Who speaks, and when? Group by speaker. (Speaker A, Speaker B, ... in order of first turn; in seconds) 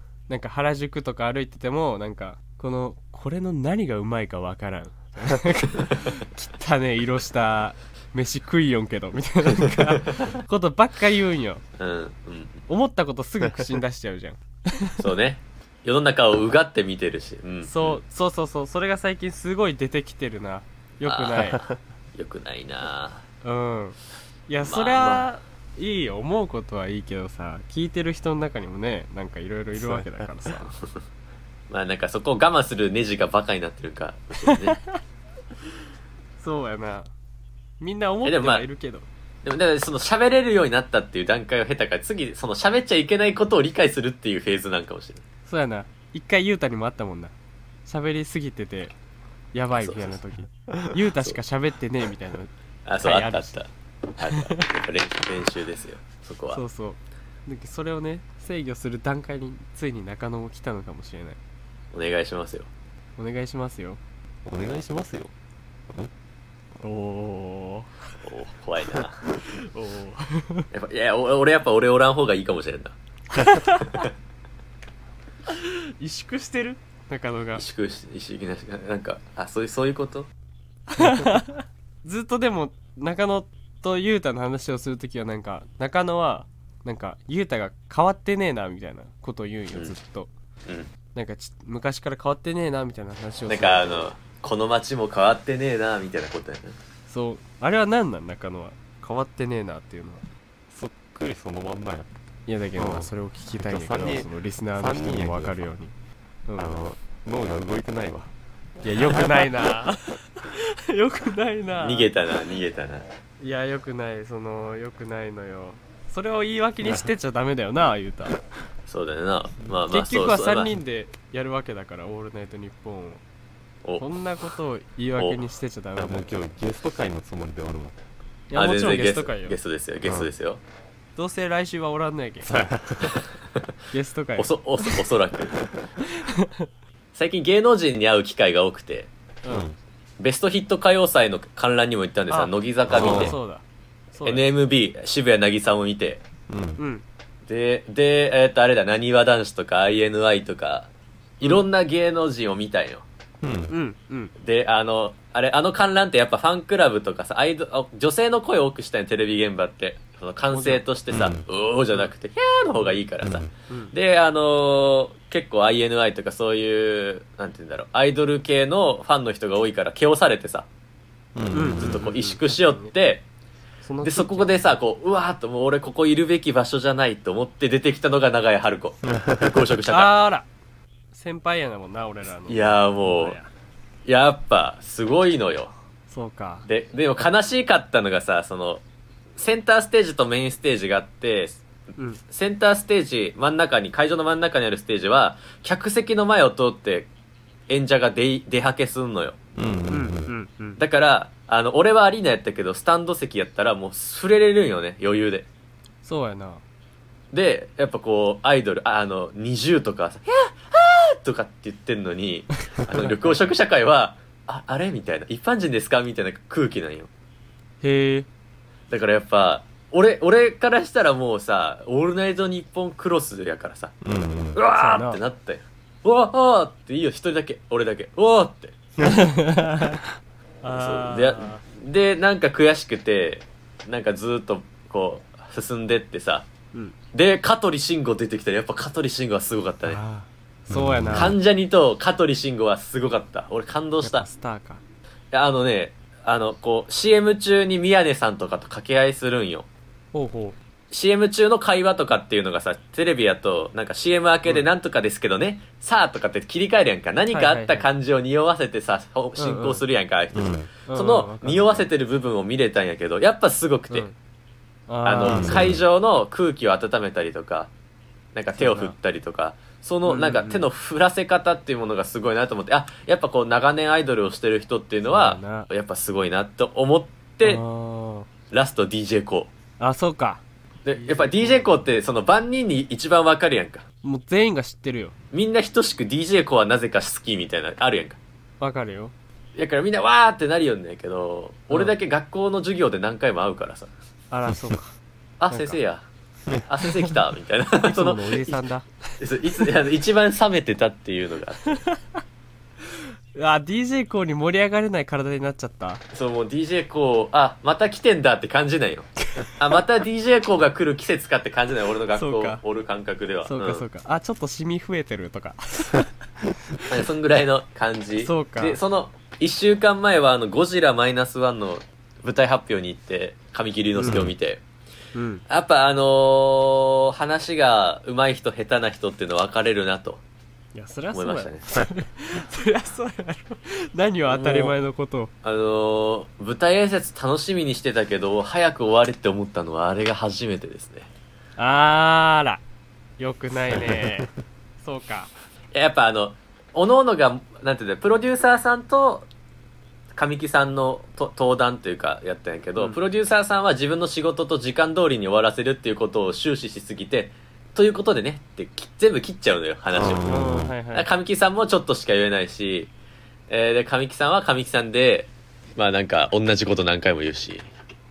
Speaker A: 0.3-11.6, 12.7-15.0, 17.7-21.6, 23.4-30.7, 34.5-35.0, 36.4-37.1, 37.8-39.1, 45.5-47.3, 47.9-48.9, 49.5-52.5, 53.0-53.5, 54.3-54.6, 56.5-61.4, 63.2-64.0, 66.8-68.0, 69.4-70.7, 73.3-74.0, 75.5-77.6, 80.9-90.3, 91.1-94.1, 97.1-100.2, 102.5-105.9, 106.5-106.8, 108.8-112.1, 113.4-118.4, 119.9-123.2, 124.0-126.3, 128.5-129.6, 131.2-132.7, 133.9-135.1, 136.1-136.7, 139.4-139.7, 142.3-144.5, 146.8-147.0, 153.7-154.3, 160.5-160.8, 171.5-172.9, 173.8-174.7, 179.9-180.5, 181.1-183.5, 186.1-186.7, 199.9-200.8, 206.0-206.6, 212.9-213.4, 217.8-218.3, 224.8-225.2, 229.0-230.0, 230.6-231.6, 239.9-241.4, 244.0-244.8, 250.1-250.6, 257.3-257.9, 259.4-259.8, 260.9-261.9, 263.9-264.2, 264.9-265.6, 268.6-268.9, 270.1-270.7, 275.1-275.7, 277.4-278.3, 279.8-280.4, 280.9-281.9, 284.0-285.1, 288.6-289.1, 294.3-294.9, 295.5-295.8, 297.8-299.0, 301.8-302.2, 303.4-306.0, 312.1-312.6, 313.4-316.1, 318.2-318.8, 324.0-324.2, 325.1-325.4, 330.8-335.3, 341.6-342.6, 343.2-344.3, 344.8-345.3, 360.3-361.1
Speaker B: 11.8-12.6, 15.0-18.0, 21.1-21.4, 22.1-23.2, 24.6-25.3, 31.7-34.8, 38.2-38.6, 39.4-45.2, 49.8-50.2, 52.9-56.6, 61.9-62.7, 68.2-69.2, 70.7-73.0, 73.7-74.1, 77.5-80.3, 93.5-96.8, 111.8-113.1, 118.9-120.7, 128.5-130.6, 134.4-135.7, 137.2-139.1, 140.2-143.4, 144.2-146.2, 147.5-150.9, 151.4-153.1, 154.4-170.7, 171.8-173.2, 174.0-180.1, 182.5-183.4, 184.1-185.7, 186.7-188.8, 189.4-191.6, 192.3-197.1, 197.7-199.4, 200.8-205.5, 207.3-217.1, 218.9-223.9, 224.6-228.8, 230.7-236.5, 237.1-240.0, 241.1-244.3, 245.3-249.7, 250.9-264.1, 265.1-267.7, 268.4-277.6, 278.5-279.5, 280.9-283.8, 285.3-288.2, 289.6-293.9, 295.4-296.1, 296.6-298.6, 299.2-301.8, 306.1-313.9, 316.9-324.6, 325.5-330.2, 331.1-331.8, 334.3-334.8, 335.4-341.1, 345.7-349.3, 350.1-360.4, 360.9-362.9, 363.5-367.7
Speaker C: 29.8-30.2, 64.5-65.3, 100.7-102.1, 102.8-103.1, 103.6-105.7, 106.6-108.3, 109.0-109.5, 126.0-128.0, 130.0-130.3, 132.5-133.2, 139.5-139.8, 142.9-143.3, 146.5-146.8, 153.4-153.7, 161.1-161.4, 163.2-163.5, 171.3-172.1, 179.1-179.6, 199.6-200.3, 224.0-224.6, 240.7-241.4, 260.3-260.7, 265.3-265.8, 324.1-324.3, 343.7-344.2, 359.9-360.7